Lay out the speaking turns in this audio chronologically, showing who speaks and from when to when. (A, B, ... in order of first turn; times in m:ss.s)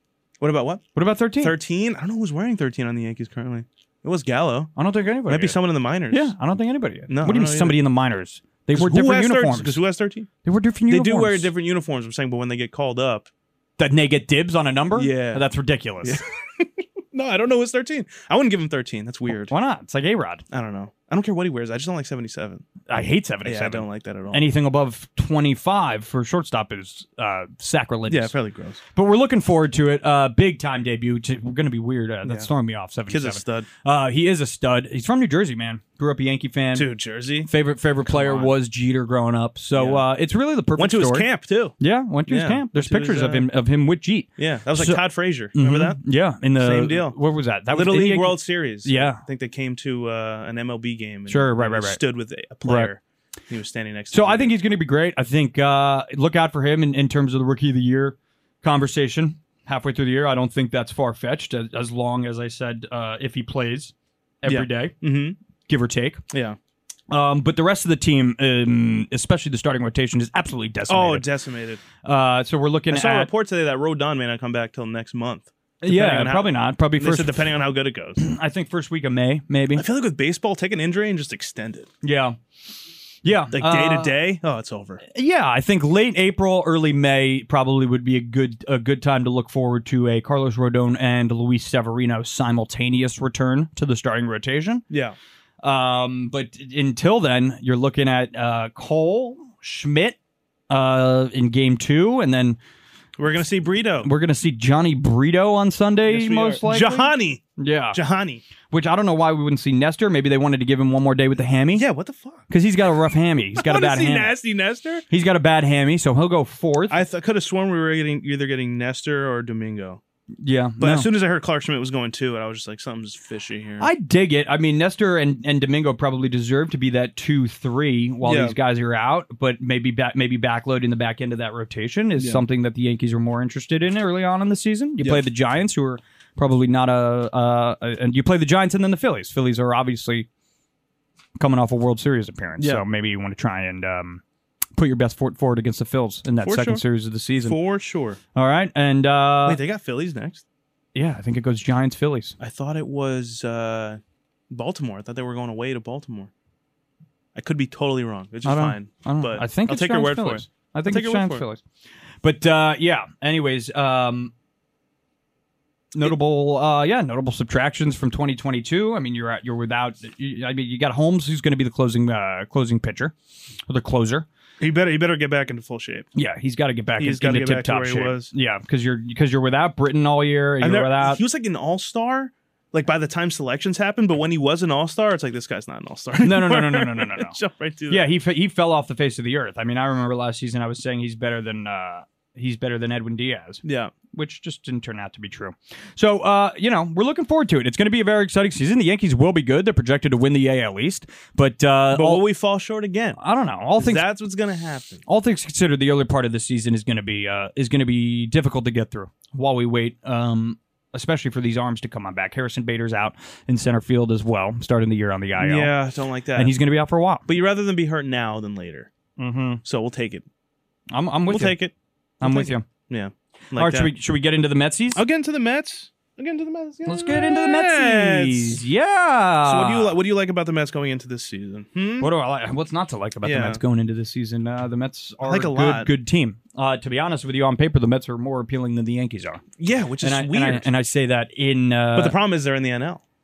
0:00.4-0:04.7 A
0:01.0-0:01.6 B
0:04.8-0:05.6 B
0:05.3-0:06.3 A
0:06.1-0:09.8 B
0:07.1-0:07.8 A
0:08.8-0:10.3 A
0:10.4-0:11.5 B
0:10.9-0:13.3 A
0:13.8-0:16.2 B
0:15.0-0:15.5 A
0:16.0-0:19.5 A
0:19.3-0:20.4 B
0:20.5-0:22.7 A
0:22.9-0:28.4 B
0:23.4-0:24.4 A
0:28.1-0:28.8 A
0:29.0-0:36.9 B
0:33.1-0:33.7 A
0:36.8-0:37.5 A
0:37.5-0:41.3 B
0:38.1-0:38.5 A
0:39.8-0:40.0 A
0:40.8-0:41.8 A
0:41.8-0:45.0 B
0:42.3-0:43.5 A
0:44.4-0:46.0 A
0:45.6-0:49.2 B
0:46.6-0:47.2 A
0:47.7-0:54.5 A
0:51.3-0:52.0 B
0:52.6-0:52.9 B
0:54.1-1:05.0 B
1:04.4-1:05.4 A
1:05.7-1:06.2 B
1:06.3-1:06.6 A
1:07.1-1:11.2 B
1:10.9-1:11.8 A
1:12.0-1:13.3 B
1:12.9-1:18.2 A
1:15.8-1:17.5 B
1:18.2-1:19.8 B
1:19.8-1:21.9 A
1:22.0-1:22.4 B
1:23.2-1:24.1 B
1:23.5-1:25.0 A
1:25.1-1:34.8 B
1:34.9-1:35.2 A
1:35.6-1:40.2 B
1:40.7-1:42.6 B
1:43.2-1:44.1 A
1:44.0-1:48.0 B
1:46.1-1:48.4 A
1:48.7-1:51.8 B
1:51.8-1:52.5 A
1:52.5-1:54.3 B
1:53.6-1:55.0 A
1:55.1-1:57.0 B
1:56.9-2:00.0 A
2:00.4-2:01.1 B
2:00.8-2:03.9 A
2:03.8-2:20.3 B
2:08.2-2:08.6 A
2:12.2-2:12.4 A
2:21.4-2:24.2 B
2:22.6-2:22.8 A
2:24.8-2:27.6 B
2:26.4-2:26.8 A
2:27.4-2:28.2 A
2:28.4-2:29.6 B
2:29.5-2:30.4 A
2:31.0-2:32.4 B
2:32.4-2:34.0 A
2:34.5-2:36.3 A
2:37.4-2:41.4 A
2:38.4-2:41.6 B
2:42.2-2:44.3 B
2:45.9-2:53.1 B
2:53.7-2:54.3 B
2:54.6-2:56.1 A
2:56.2-3:01.2 B
2:57.0-2:58.3 A
3:00.6-3:08.1 A
3:06.2-3:07.4 B
3:07.9-3:22.2 B
3:13.6-3:13.9 A
3:21.9-3:23.2 A
3:23.2-3:24.1 B
3:23.8-3:25.0 A
3:25.1-3:35.7 B
3:35.4-3:36.5 A
3:36.4-3:37.2 B
3:37.3-3:38.9 A
3:39.2-3:39.6 B
3:39.6-3:40.2 A
3:40.9-3:41.6 B
3:41.3-3:43.9 A
3:42.2-3:42.7 B
3:43.6-3:45.0 B
3:45.0-3:48.6 A
3:46.9-3:50.0 B
3:49.4-3:52.1 A
3:52.0-3:59.4 B
3:53.2-3:53.6 A
3:55.2-3:55.9 A
3:59.6-4:00.7 A
4:00.0-4:02.2 B
4:02.0-4:03.0 A